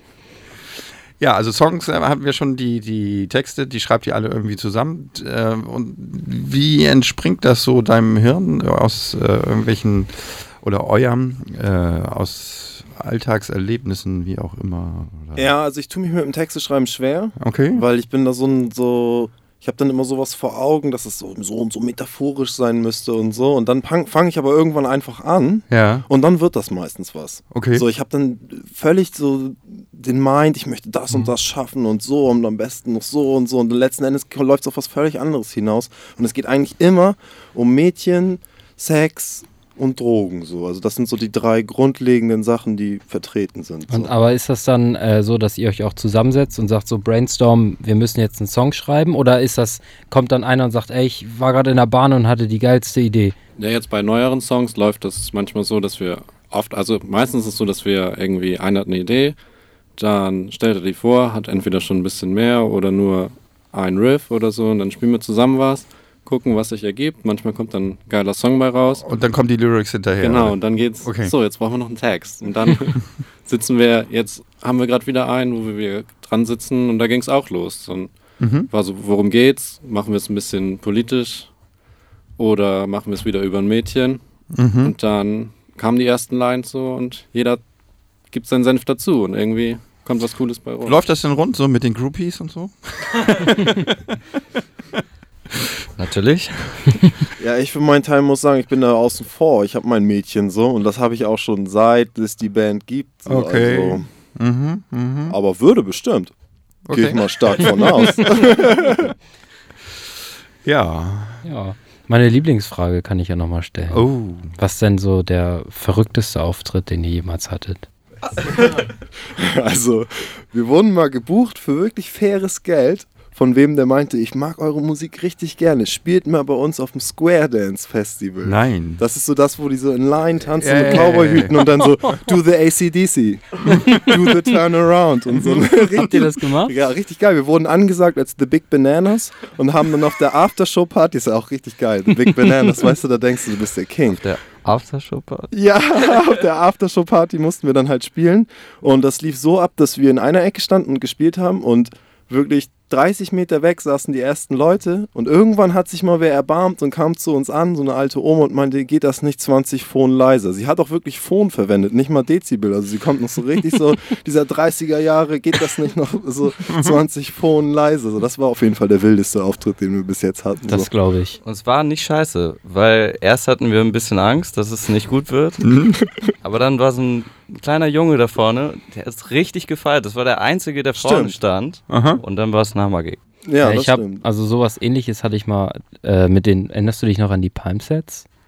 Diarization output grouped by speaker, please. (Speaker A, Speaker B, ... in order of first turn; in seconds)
Speaker A: 1.2-15.5, 17.4-17.8, 25.7-26.1, 27.5-27.8, 69.0-71.3, 78.4-78.7, 84.5-84.9, 90.8-93.7, 103.2-105.4, 106.9-108.9, 110.6-111.4, 113.9-114.5, 128.4-129.0, 130.6-131.7, 133.7-134.0, 135.4-136.0, 175.6-176.0, 181.9-182.2
Speaker B: 15.4-44.1, 97.4-104.0, 105.3-106.3, 106.9-109.0, 118.3-144.2, 145.5-170.9, 180.9-181.4, 183.4-184.2
Speaker C: 43.9-53.3, 111.4-117.9, 136.0-136.7, 170.7-171.4, 183.6-188.2
Speaker D: 53.6-59.4, 59.9-69.1, 70.2-81.5, 82.4-87.6, 88.3-91.0
Speaker E: 96.0-97.2, 144.2-145.5, 171.4-175.6, 176.4-183.2